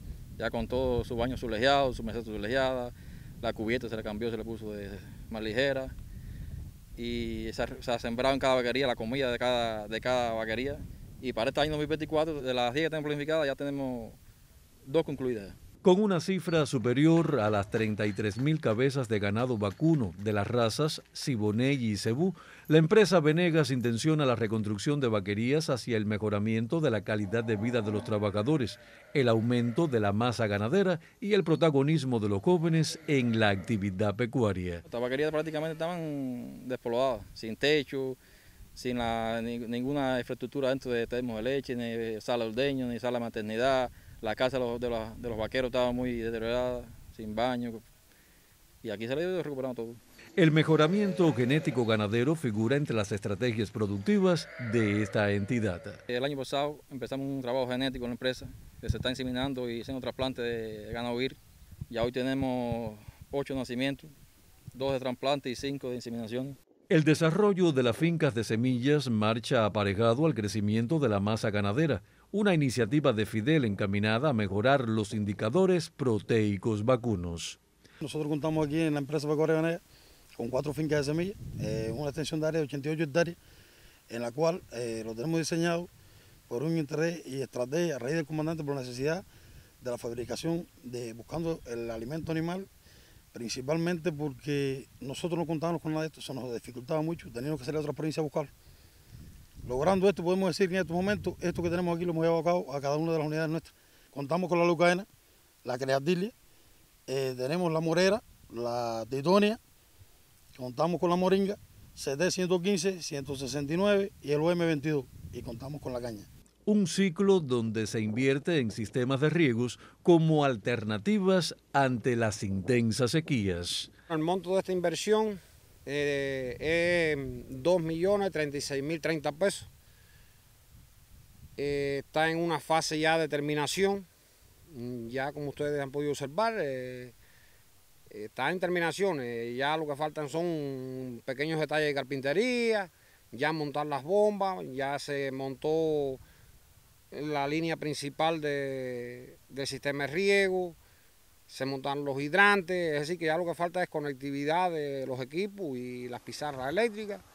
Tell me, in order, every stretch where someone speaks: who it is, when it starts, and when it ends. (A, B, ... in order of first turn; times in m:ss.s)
0:00.4-0:05.9 A
0:07.0-0:14.2 A
0:14.8-0:15.6 A
0:15.8-0:34.8 B
0:34.9-0:38.2 A
0:38.8-0:47.8 A
0:48.8-0:50.0 A
0:50.4-0:56.0 B
0:56.1-1:01.4 A
1:01.9-1:04.1 A
1:04.7-1:06.6 A
1:06.9-1:17.6 B
1:18.0-1:19.8 C
1:20.4-1:23.4 C
1:24.1-1:25.9 C
1:26.5-1:29.2 C
1:29.8-1:32.7 C
1:33.3-1:38.5 C
1:39.6-1:45.1 C
1:45.6-1:46.3 C
1:47.1-1:49.6 C
1:50.6-1:56.3 C
1:56.6-2:03.9 B
2:04.1-2:09.7 D
2:11.6-2:14.1 D
2:14.7-2:17.1 D
2:18.1-2:26.2 D
2:27.1-2:30.8 D
2:31.5-2:37.2 D